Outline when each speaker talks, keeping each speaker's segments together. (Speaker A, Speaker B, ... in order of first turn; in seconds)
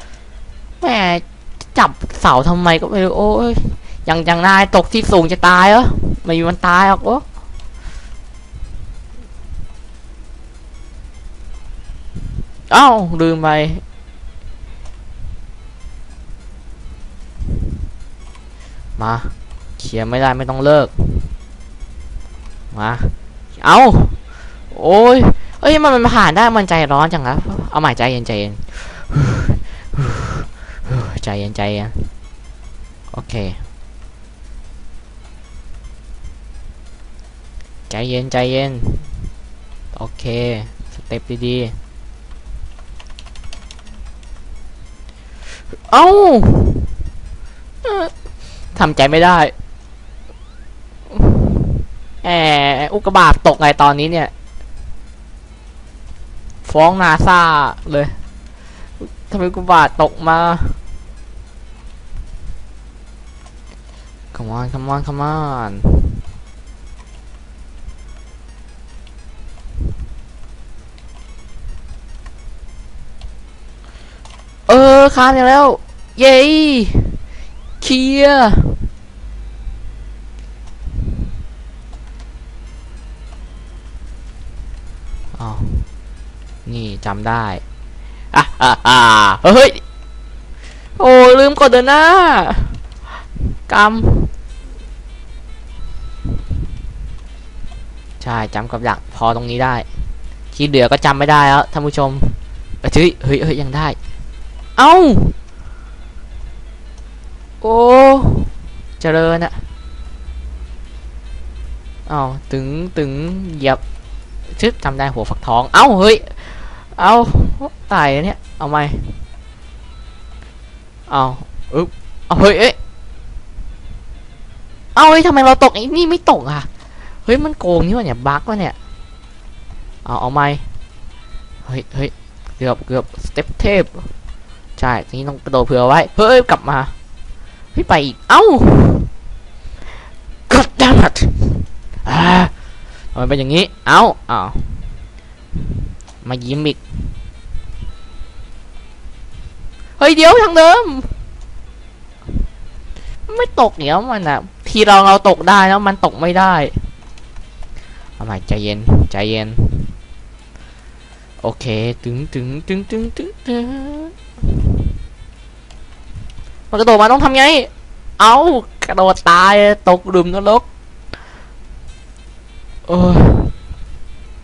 Speaker A: 0.8-7.2, 12.7-13.8, 19.0-21.3, 22.7-24.2, 24.7-32.1, 33.1-33.6, 37.9-39.1, 39.9-41.8, 45.9-47.0, 47.8-48.1, 48.7-49.5, 51.1-54.3, 56.6-58.2, 59.0-60.8, 64.3-66.2, 74.7-77.2, 77.8-78.9, 85.3-85.9, 86.7-87.6, 88.3-89.8, 91.0-94.3, 98.2-99.9, 100.5-104.0, 104.8-105.4, 107.6-109.7, 112.1-113.8, 114.5-119.2, 121.1-122.8, 125.0-126.7, 127.3-128.8, 130.1-130.7, 131.6-134.1, 134.8-136.9, 137.7-139.1, 140.5-142.5, 143.1-145.0, 146.2-147.1, 150.0-151.2, 153.3-156.9, 158.2-159.9, 161.4-164.8, 166.7-170.7, 172.9-173.5